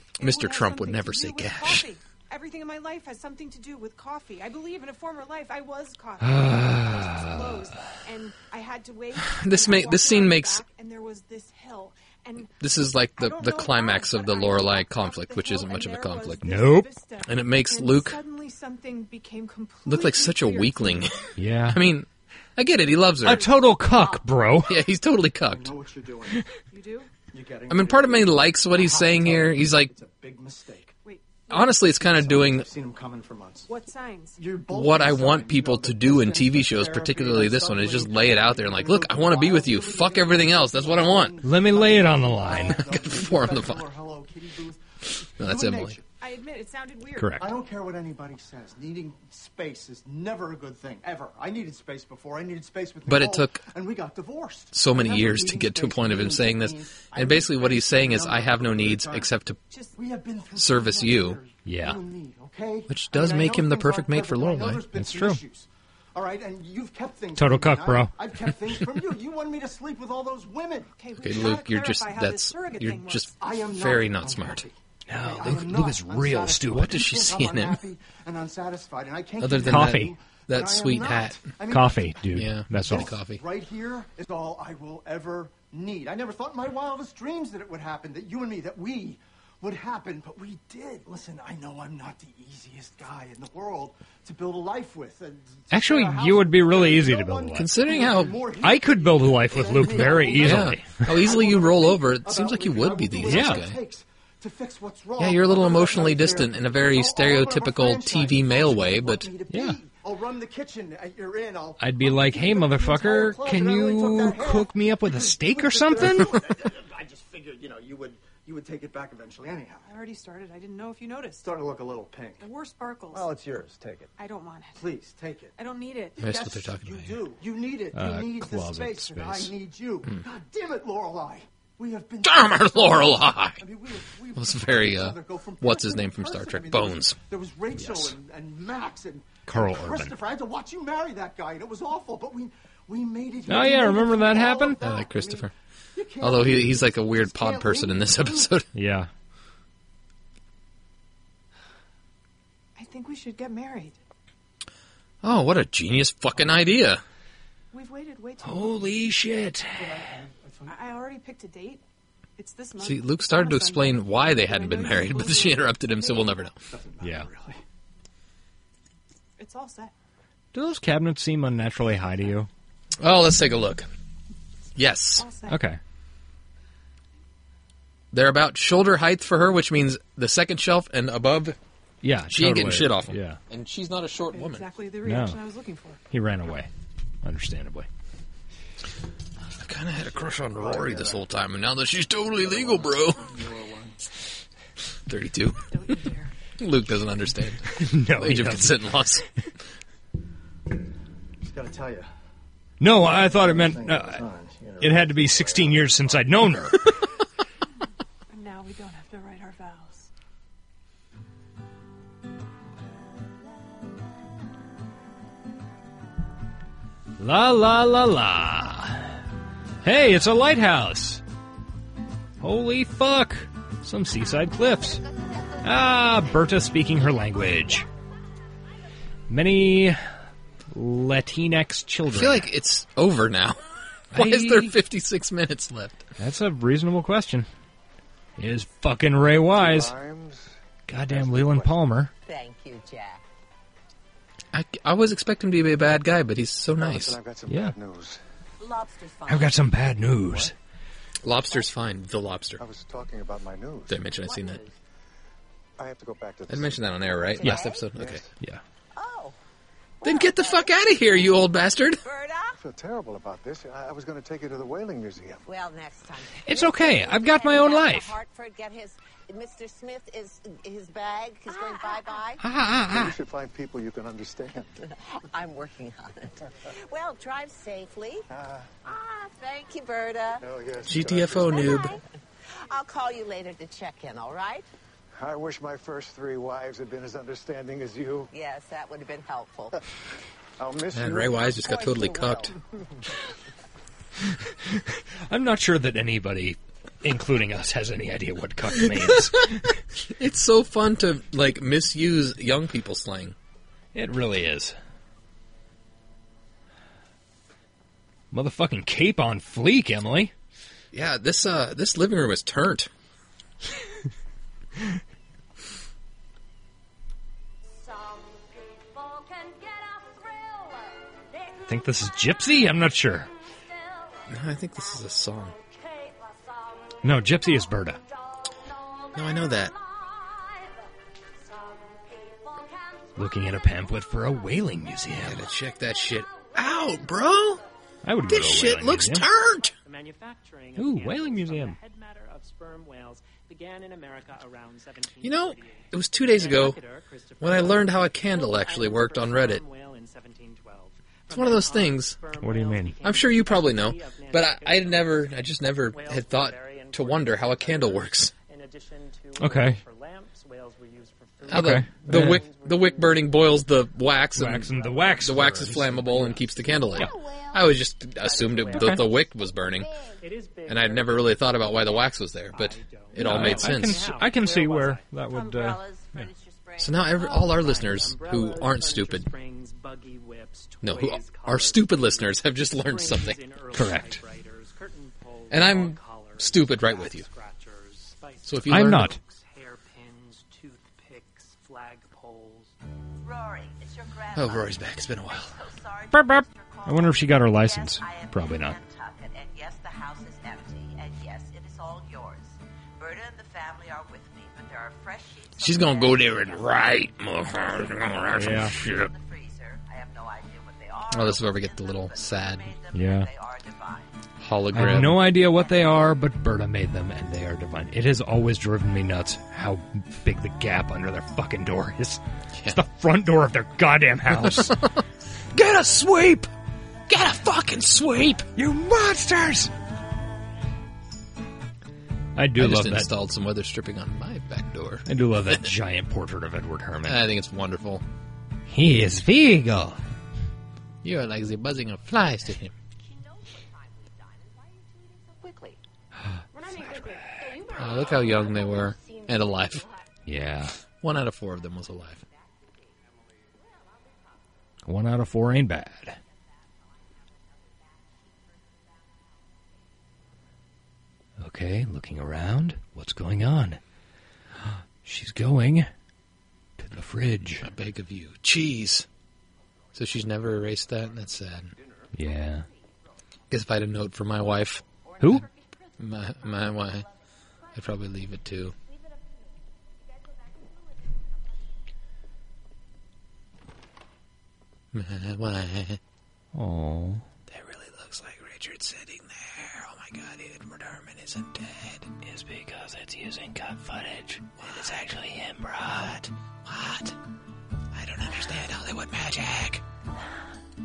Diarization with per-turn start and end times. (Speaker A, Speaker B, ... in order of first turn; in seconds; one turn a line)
Speaker A: 0.2-1.9
Speaker B: 0.2-12.6
Speaker C: 6.2-7.5
Speaker A: 9.2-10.6
Speaker A: 12.6-16.4
Speaker B: 13.2-21.1
Speaker C: 16.4-16.9
Speaker A: 17.2-18.2
Speaker A: 19.8-23.5
Speaker C: 21.4-21.8
Speaker C: 23.2-24.7
Speaker B: 23.7-24.2
Speaker A: 24.6-25.7
Speaker D: 25.5-26.4
Speaker B: 26.7-27.1
Speaker D: 27.3-30.9
Speaker A: 27.7-29.9
Speaker B: 31.0-31.8
Speaker A: 31.5-32.7
Speaker D: 31.9-33.7
Speaker B: 33.7-34.4
Speaker D: 34.4-46.0
Speaker A: 34.7-41.4
Speaker C: 41.4-42.8
Speaker A: 42.5-43.8
Speaker A: 45.4-46.0
Speaker B: 46.2-47.4
Speaker C: 47.2-47.5
Speaker D: 47.4-59.3
Speaker A: 53.0-53.6
Speaker A: 54.7-59.6
Speaker B: 59.7-60.0
Speaker D: 60.0-70.9
Speaker A: 60.5-61.4
Speaker C: 61.6-62.0
Speaker A: 62.9-64.8
Speaker C: 65.0-65.4
Speaker C: 67.3-68.1
Speaker B: 71.0-73.3
Speaker A: 71.2-74.6
Speaker D: 73.4-82.2
Speaker C: 75.1-77.0
Speaker A: 76.7-77.8
Speaker A: 79.4-81.4
Speaker C: 79.6-80.1
Speaker C: 81.7-83.1
Speaker A: 82.3-83.4
Speaker D: 82.9-119.9
Speaker C: 95.7-97.7
Speaker A: 97.5-98.4
Speaker C: 98.6-101.1
Speaker A: 100.0-103.8
Speaker C: 103.2-103.6
Speaker A: 105.2-109.3
Speaker C: 109.5-109.8
Speaker C: 111.8-116.4
Speaker B: 119.8-121.4
Speaker D: 121.4-122.5
Speaker B: 122.4-123.3
Speaker D: 123.1-124.1
Speaker B: 124.2-124.8
Speaker D: 124.7-125.5
Speaker B: 125.6-126.2
Speaker D: 126.2-148.5
Speaker A: 126.2-127.2
Speaker C: 127.9-129.5
Speaker A: 132.2-133.6
Speaker A: 134.3-137.2
Speaker C: 137.8-138.1
Speaker C: 139.5-140.1
Speaker C: 143.5-144.8
Speaker A: 144.8-145.5
Speaker A: 146.2-148.7
Speaker C: 148.7-149.1
Speaker B: 152.8-154.0
Speaker A: 155.2-157.0
Speaker B: 157.7-158.9
Speaker C: 158.4-159.9
Speaker D: 159.8-160.8
Speaker B: 160.7-161.8
Speaker B: 162.4-166.5
Speaker A: 162.8-166.6
Speaker D: 166.7-167.6
Speaker C: 167.0-167.3
Speaker B: 169.4-169.9
Speaker C: 170.5-172.5
Speaker A: 173.0-173.9
Speaker A: 174.8-175.2
Speaker B: 175.2-175.6
Speaker C: 175.5-175.8
Speaker A: 178.1-181.6
Speaker C: 182.0-183.4
Speaker A: 182.3-184.7
Speaker B: 184.3-186.0
Speaker C: 185.0-185.4
Speaker C: 186.1-186.7
Speaker C: 187.2-187.9
Speaker A: 189.6-193.4
Speaker D: 190.6-191.2
Speaker D: 192.4-193.9
Speaker A: 195.1-195.6
Speaker B: 195.7-196.3
Speaker A: 196.6-199.2
Speaker C: 197.8-198.8
Speaker D: 201.4-202.1
Speaker C: 202.8-204.2
Speaker D: 203.2-206.1
Speaker C: 204.8-206.9
Speaker B: 208.3-210.1
Speaker C: 217.2-219.2
Speaker C: 219.8-221.2
Speaker C: 222.4-225.0
Speaker C: 225.6-227.8
Speaker C: 229.3-230.0
Speaker C: 230.7-232.4
Speaker A: 232.1-233.6
Speaker A: 234.1-236.0
Speaker C: 234.1-234.7
Speaker C: 236.2-237.5
Speaker C: 238.4-239.9
Speaker E: 239.5-240.6
Speaker C: 240.9-242.1
Speaker E: 241.1-241.8
Speaker F: 242.2-243.2
Speaker A: 244.5-247.2
Speaker E: 246.8-248.2
Speaker C: 247.5-247.7
Speaker F: 248.6-249.6
Speaker C: 249.3-250.5
Speaker A: 251.2-252.6
Speaker E: 252.6-254.1
Speaker A: 253.9-254.6
Speaker F: 254.2-254.7
Speaker E: 255.8-256.8
Speaker A: 256.5-258.2
Speaker E: 257.4-258.3
Speaker F: 257.4-257.8
Speaker F: 258.9-259.4
Speaker F: 260.0-260.8
Speaker A: 260.0-262.0
Speaker F: 262.0-262.6
Speaker E: 262.6-265.4
Speaker F: 265.4-272.4
Speaker C: 266.5-268.1
Speaker C: 272.4-273.1
Speaker E: 272.9-274.9
Speaker F: 274.9-278.2
Speaker E: 278.3-278.7
Speaker F: 278.8-280.5
Speaker E: 280.4-281.8
Speaker A: 280.8-281.9
Speaker F: 281.5-282.0
Speaker F: 282.6-284.7
Speaker E: 285.2-288.3
Speaker F: 288.3-289.8
Speaker E: 290.6-291.5
Speaker A: 290.9-292.5
Speaker F: 291.6-292.5
Speaker C: 294.5-299.7
Speaker A: 298.9-299.2
Speaker A: 300.1-303.3
Speaker C: 303.9-304.8
Speaker C: 308.3-310.3
Speaker A: 310.9-312.9
Speaker C: 321.7-323.3
Speaker A: 324.3-325.6
Speaker C: 327.0-328.0
Speaker A: 329.1-329.7
Speaker C: 333.1-335.5
Speaker A: 335.2-337.6
Speaker C: 338.0-339.2
Speaker A: 338.3-339.7
Speaker G: 339.8-363.5
Speaker C: 340.8-341.8
Speaker A: 345.2-346.8
Speaker A: 347.4-349.6
Speaker A: 351.3-352.2
Speaker C: 352.4-353.0
Speaker A: 353.0-358.3
Speaker C: 359.4-359.8
Speaker A: 361.4-369.9
Speaker C: 361.5-362.4
Speaker C: 364.4-367.1
Speaker G: 364.8-365.2
Speaker G: 368.2-369.1
Speaker C: 368.7-369.0
Speaker G: 370.2-375.1
Speaker A: 370.7-374.1
Speaker C: 373.2-376.3
Speaker F: 375.3-377.5
Speaker A: 376.8-379.3
Speaker G: 377.2-392.7
Speaker A: 380.8-383.4
Speaker C: 383.7-384.2
Speaker A: 385.5-387.3
Speaker A: 388.4-389.1
Speaker C: 388.7-389.2
Speaker F: 393.2-407.0
Speaker A: 394.3-395.5
Speaker C: 396.1-398.8
Speaker A: 405.6-409.1
Speaker F: 407.5-414.1
Speaker C: 408.3-408.8
Speaker A: 411.1-412.7
Speaker C: 412.9-413.3
Speaker A: 414.4-415.2
Speaker C: 414.7-424.8
Speaker A: 424.4-425.0
Speaker A: 425.5-426.4
Speaker C: 425.8-426.4
Speaker A: 427.1-428.5
Speaker C: 428.6-429.7
Speaker C: 432.4-433.1
Speaker A: 432.6-435.6
Speaker C: 435.1-437.2
Speaker A: 437.1-438.0
Speaker C: 438.7-440.0
Speaker A: 441.0-442.7
Speaker F: 443.0-445.6
Speaker A: 447.7-449.9
Speaker C: 450.2-450.7
Speaker A: 451.0-452.2
Speaker F: 452.4-452.9
Speaker C: 454.9-456.1
Speaker C: 461.4-463.8
Speaker C: 465.0-465.9
Speaker C: 466.8-467.7
Speaker A: 467.6-469.1
Speaker A: 469.9-471.7
Speaker C: 472.1-472.6
Speaker A: 473.5-475.4
Speaker A: 476.0-477.1
Speaker A: 477.7-478.7
Speaker A: 484.9-486.0
Speaker C: 486.5-487.2
Speaker A: 487.5-492.1
Speaker C: 492.2-496.2
Speaker A: 494.6-495.0
Speaker A: 496.6-497.1
Speaker A: 497.9-499.8